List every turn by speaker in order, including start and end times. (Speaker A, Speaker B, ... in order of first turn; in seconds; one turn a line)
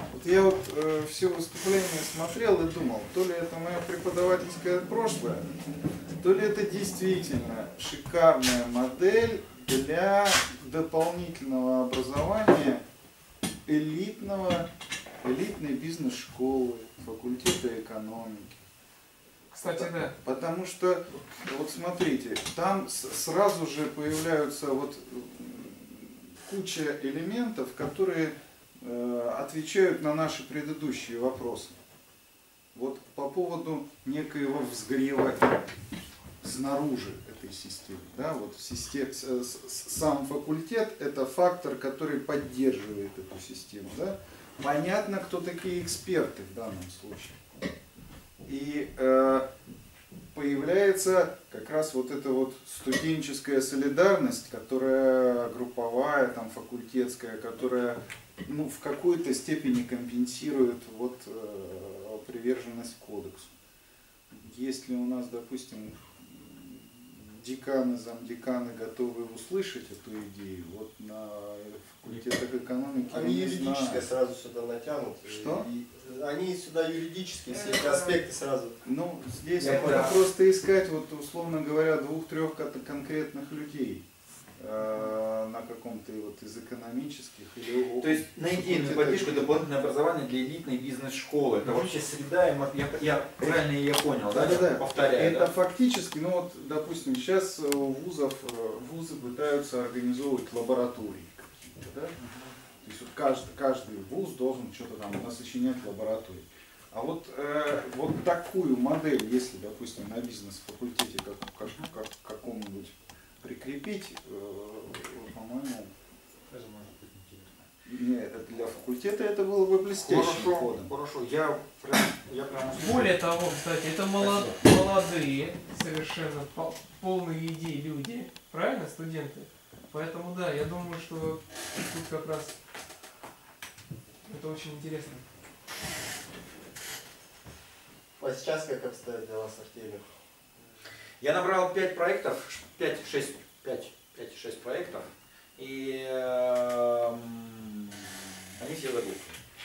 Speaker A: 0.1-5.6
Speaker A: 6.2-12.8
Speaker A: 13.7-14.7
Speaker A: 15.2-18.6
Speaker B: 19.5-20.1
Speaker A: 19.5-31.8
Speaker A: 32.7-35.7
Speaker A: 36.4-47.4
Speaker A: 48.4-49.5
Speaker A: 50.3-63.5
Speaker A: 64.3-74.1
Speaker C: 73.1-78.8
Speaker A: 75.2-75.7
Speaker A: 78.8-84.0
Speaker D: 79.6-80.2
Speaker C: 79.6-80.1
Speaker A: 84.6-89.6
Speaker D: 88.0-95.5
Speaker A: 94.3-102.3
Speaker D: 102.2-102.5
Speaker A: 102.8-115.9
Speaker D: 116.5-117.7
Speaker A: 117.8-120.9
Speaker D: 120.0-123.2
Speaker B: 122.7-132.6
Speaker D: 124.2-124.6
Speaker B: 134.2-135.2
Speaker C: 138.2-140.0
Speaker D: 141.2-148.1
Speaker D: 148.6-149.3